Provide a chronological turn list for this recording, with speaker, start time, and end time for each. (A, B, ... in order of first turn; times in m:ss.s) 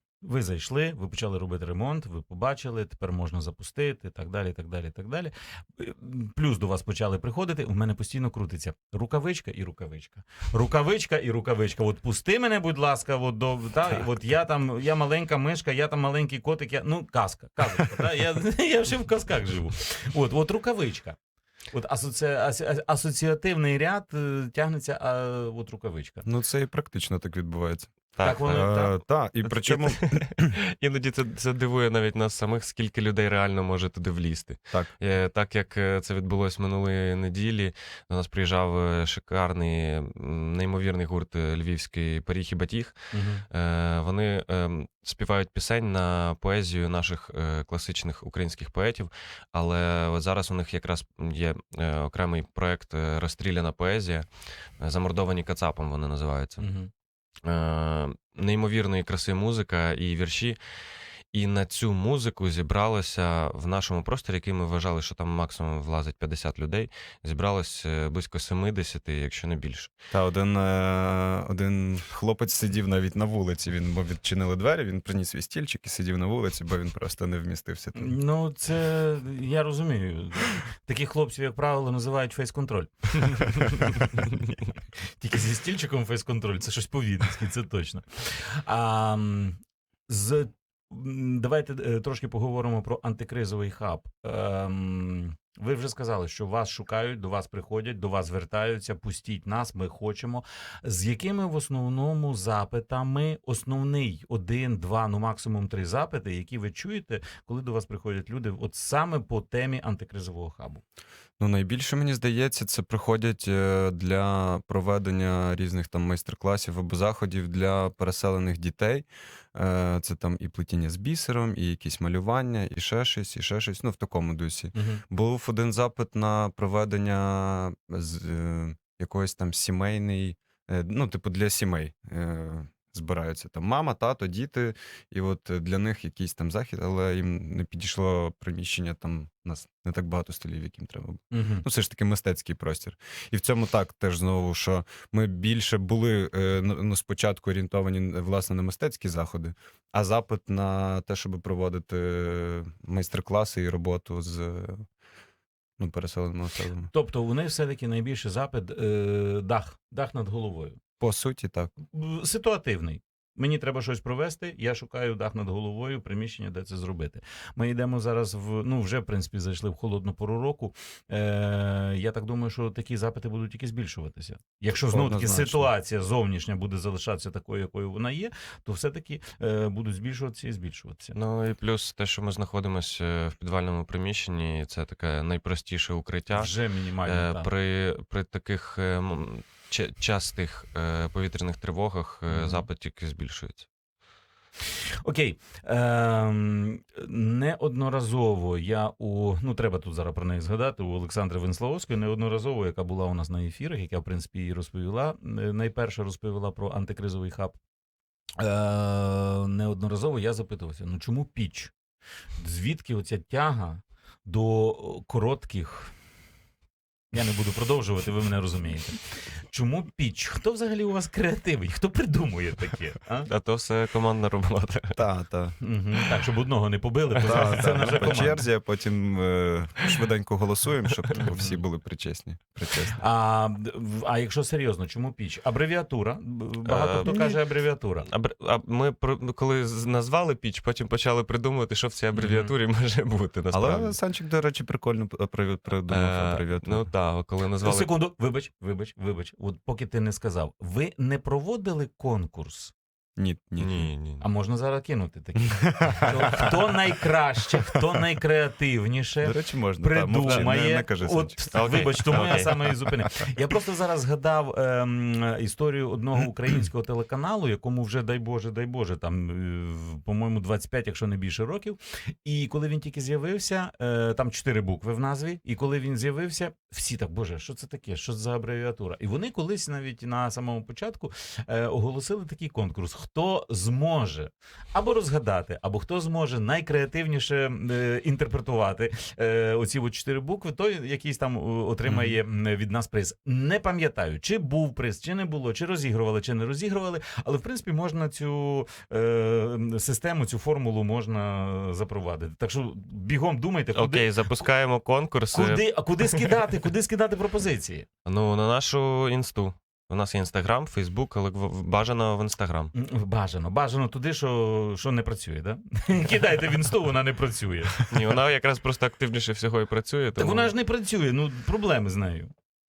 0:00.2-0:21.2 A
0:21.7-0:26.2 A
0:26.2-0:30.5 B
0:28.2-0:28.8 C
0:28.2-0:28.9 A
0:29.6-0:43.0 C
0:43.1-0:43.4 A
0:43.5-0:56.7 C
0:56.6-0:56.9 A
0:57.4-1:00.6 C
1:01.3-1:09.9 C
1:10.1-1:18.1 B
1:17.9-1:24.2 A
1:25.2-1:50.8 A
1:51.4-2:34.8 B
2:04.7-2:05.0 A
2:21.3-2:21.6 A
2:35.8-2:36.9 B
2:36.9-2:40.8 A
2:41.0-2:41.7 B
2:41.9-3:01.2 A
2:54.9-2:55.7 B
3:01.1-3:06.5 C
3:06.3-3:07.5 A
3:07.0-3:13.7 C
3:12.3-3:12.7 A
3:15.0-3:27.6 A
3:28.4-3:31.7 A
3:32.4-3:35.9 A
3:37.1-3:43.3 A
3:43.2-3:45.0 C
3:44.9-3:45.5 B
3:45.6-3:48.4 A
3:47.2-3:48.1 C
3:47.2-3:53.0 B
3:51.1-3:51.6 A
3:53.0-3:58.0 A
3:56.6-3:57.2 C
3:57.0-3:57.3 B
3:58.0-4:04.0 C
4:02.2-4:02.5 A
4:03.5-4:06.9 B
4:05.9-4:07.9 C
4:07.6-4:12.7 A
4:13.2-4:13.9 B
4:13.6-4:14.2 C
4:14.2-5:04.1 A
4:15.4-4:16.5 B
4:19.2-4:22.4 B
4:21.5-4:22.5 C
4:51.9-4:52.2 C
5:03.7-5:06.2 C
5:05.3-5:07.9 A
5:08.0-5:12.7 C
5:12.7-5:17.9 A
5:17.8-5:20.5 C
5:20.2-5:22.3 A